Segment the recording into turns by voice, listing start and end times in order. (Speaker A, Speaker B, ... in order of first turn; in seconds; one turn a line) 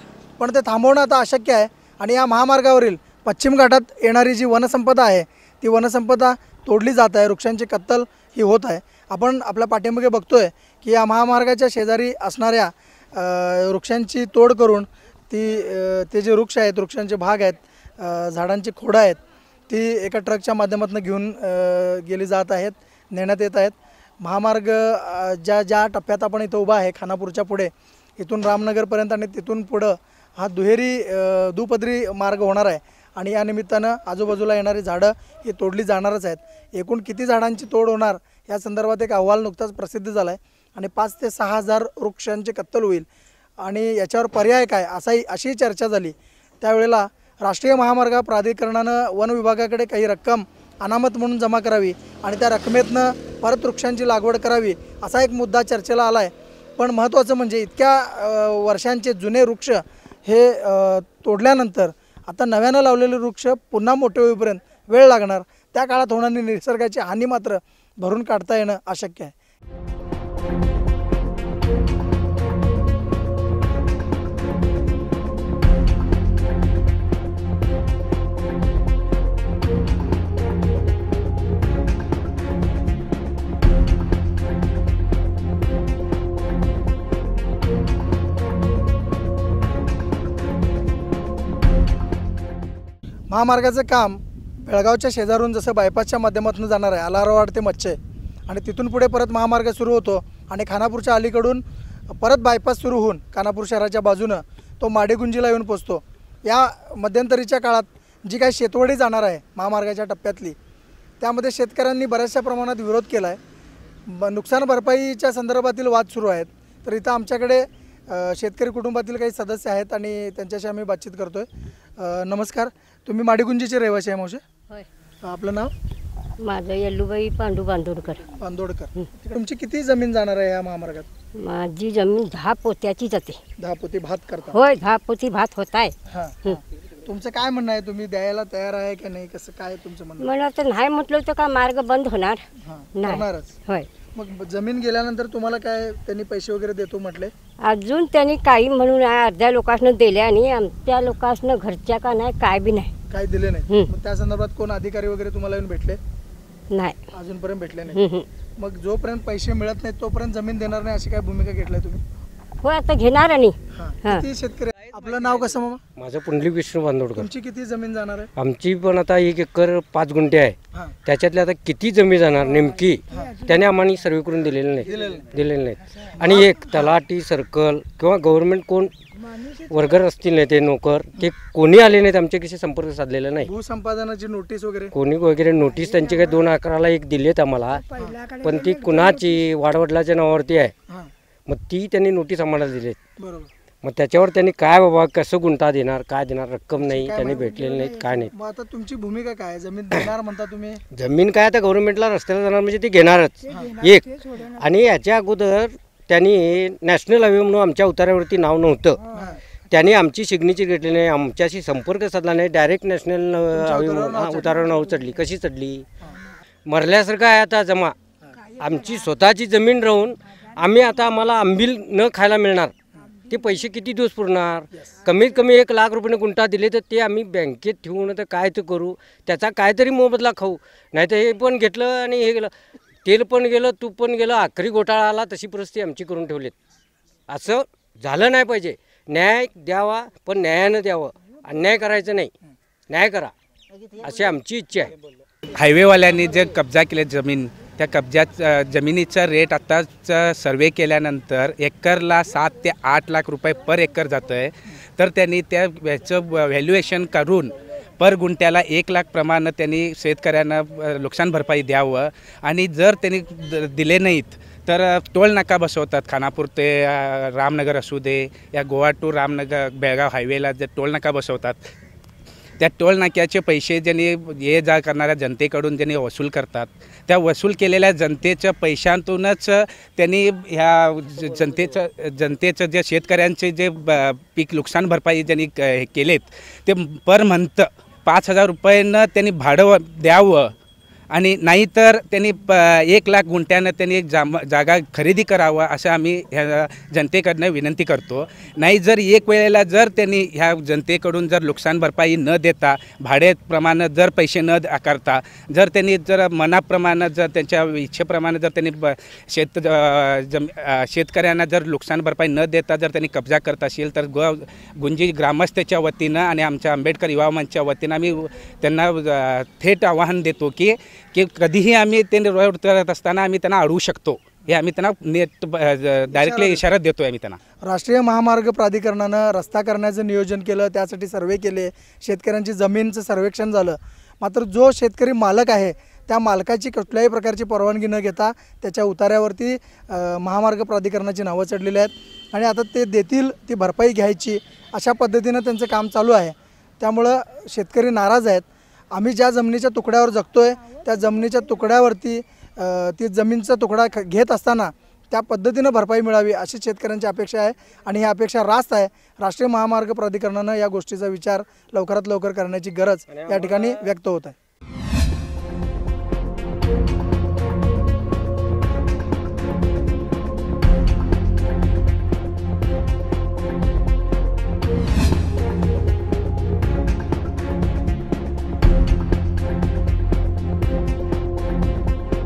Speaker A: 0.4-43.1
Speaker A: 43.6-69.3
Speaker A: 93.3-101.6
Speaker A: 102.1-110.5
Speaker A: 111.2-113.4
Speaker A: 114.1-121.5
Speaker A: 122.0-124.4
Speaker A: 125.2-125.7
Speaker B: 126.4-128.2
Speaker A: 128.3-131.1
Speaker B: 131.4-133.4
Speaker A: 133.6-134.6
Speaker B: 134.5-135.9
Speaker A: 136.1-140.3
Speaker B: 140.2-142.4
Speaker A: 142.6-143.6
Speaker B: 142.9-143.9
Speaker A: 144.1-147.3
Speaker B: 147.6-152.9
Speaker A: 153.1-156.0
Speaker B: 156.7-157.0
Speaker A: 157.1-158.0
Speaker B: 157.9-158.3
Speaker A: 158.6-162.0
Speaker B: 162.6-164.2
Speaker A: 163.7-165.8
Speaker C: 165.9-167.3
Speaker A: 167.2-168.3
Speaker C: 168.3-178.9
Speaker A: 174.8-175.3
Speaker A: 176.2-176.9
Speaker C: 179.7-183.5
Speaker A: 183.4-184.9
Speaker C: 184.9-187.8
Speaker C: 188.4-190.7
Speaker C: 191.4-193.0
Speaker A: 193.2-193.5
Speaker C: 193.8-198.3
Speaker A: 196.8-197.4
Speaker A: 198.3-200.8
Speaker C: 200.9-209.0
Speaker A: 209.1-209.4
Speaker C: 209.7-215.9
Speaker A: 213.5-214.5
Speaker C: 216.7-217.9
Speaker C: 218.6-222.7
Speaker C: 223.3-232.5
Speaker C: 233.0-236.5
Speaker C: 237.3-242.3
Speaker C: 242.9-243.3
Speaker C: 244.0-244.9
Speaker D: 245.5-271.6
Speaker D: 272.6-290.5
Speaker C: 281.2-281.8
Speaker D: 291.1-327.4
Speaker A: 326.1-326.6
Speaker A: 327.6-364.4
Speaker C: 363.1-363.9